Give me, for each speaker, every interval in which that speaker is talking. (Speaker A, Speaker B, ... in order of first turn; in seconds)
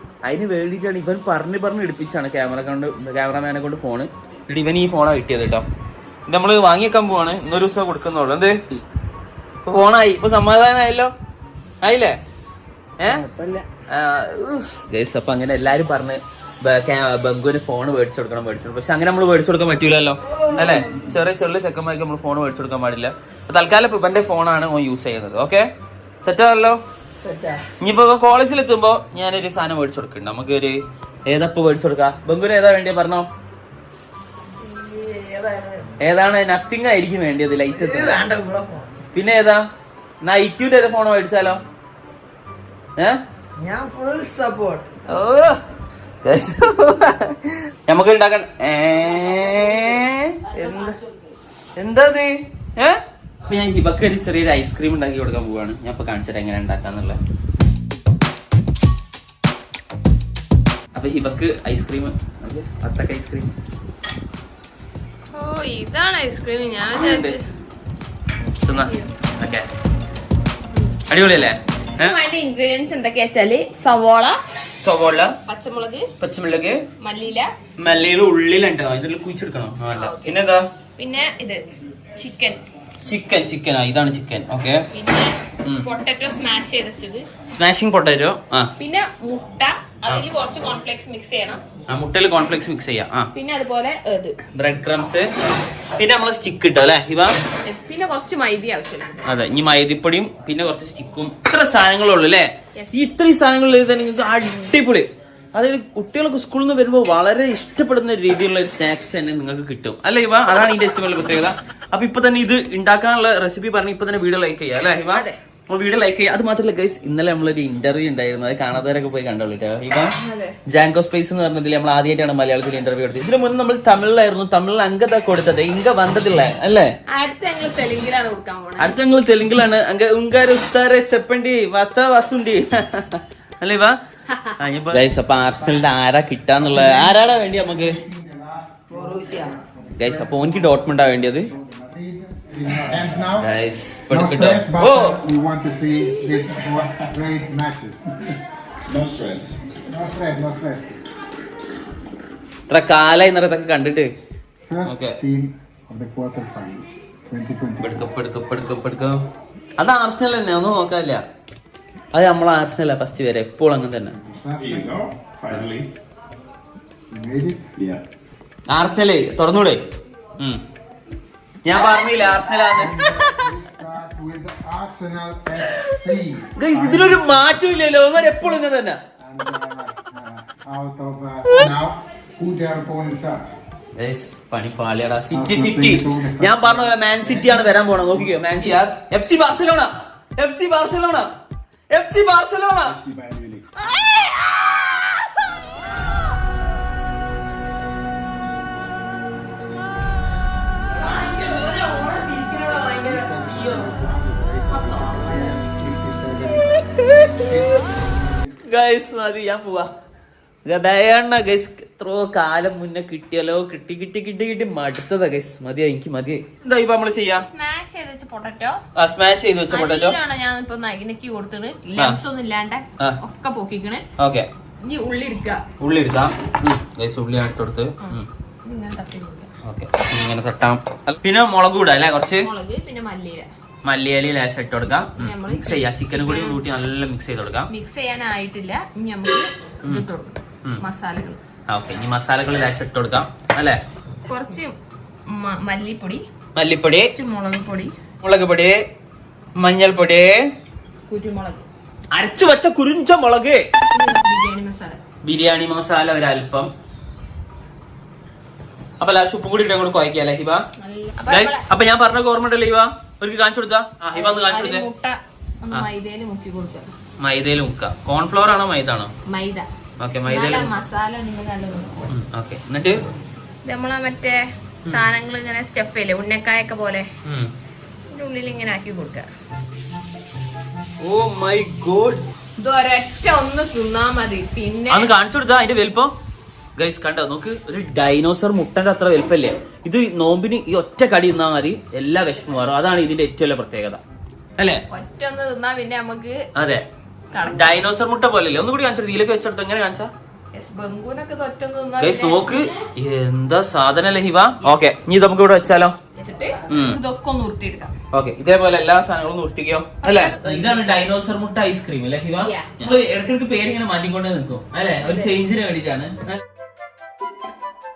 Speaker A: 0.2-5.7, 6.3-8.6, 9.7-11.1, 11.8-12.2, 13.0-13.3, 13.9-25.7, 26.2-26.8, 27.8-33.3, 36.0-38.3, 39.1-39.7, 40.2-41.6, 45.1-45.6, 46.2-51.0, 51.8-57.2, 61.0-63.5, 67.0-67.3, 68.6-69.7, 71.1-72.2, 74.7-75.3, 76.2-76.8, 77.8-80.7, 83.0-84.8, 87.4-88.7, 91.9-93.3, 94.5-95.3, 96.0-97.3, 99.2-120.1, 120.7-126.9, 128.8-134.0, 134.6-138.0, 140.0-141.5, 143.4-145.2, 152.7-154.1, 154.8-155.2, 157.8-159.2, 159.8-161.2, 162.1-164.2, 168.7-169.8, 171.7-173.3, 176.6-179.0, 184.0-191.3, 191.9-193.0, 193.9-194.4, 200.9-203.9, 204.7-205.6, 206.9-207.6, 208.6-209.9, 210.7-217.5, 219.0-220.2, 224.2-224.5, 225.8-228.3, 229.6-232.5, 233.8-237.7, 241.7-243.8, 246.6-247.1, 248.2-248.8, 249.6-250.5, 252.1-253.6, 255.2-256.7, 259.0-260.6, 261.3-264.9, 267.2-269.1, 270.0-270.7, 272.1-273.0, 277.2-277.5, 281.0-282.2, 284.9-286.1, 286.8-294.0, 294.6-294.8, 296.6-296.9, 297.4-300.1, 302.0-305.9, 306.7-307.0, 308.1-316.3
Speaker B: 13.1-13.7, 20.5-21.0, 27.2-27.6, 34.6-36.0, 37.7-38.9, 43.6-44.9
Speaker C: 50.5-51.3, 65.3-67.4, 68.7-69.1, 72.0-74.4, 75.5-76.1, 77.0-77.5, 79.9-80.4, 81.0-82.6, 84.9-87.3, 88.8-91.6, 93.3-94.4, 97.7-99.2, 120.2-120.5, 127.1-128.9, 217.3-218.8, 219.7-224.1, 224.8-225.6, 228.0-229.5, 232.4-233.5, 235.2-236.6, 237.7-241.4, 244.3-246.3, 247.1-247.9, 251.1-251.7, 253.9-255.0, 260.8-261.6, 264.1-266.9, 269.3-269.7, 270.2-272.1, 273.6-277.1, 278.1-279.3, 282.6-285.1, 294.9-296.4, 297.3-297.8, 300.5-302.7, 306.2-307.9, 310.0-310.9, 312.4-312.9, 315.0-315.4
Speaker D: 135.6-135.9, 136.6-143.5, 144.1-148.4, 149.7-150.9, 154.7-158.1, 164.2-165.7, 167.1-167.8, 172.7-178.6, 179.2-183.5, 185.3-188.6, 203.0-208.6
Speaker E: 149.0-149.5, 164.6-165.9, 167.8-168.0, 193.0-193.7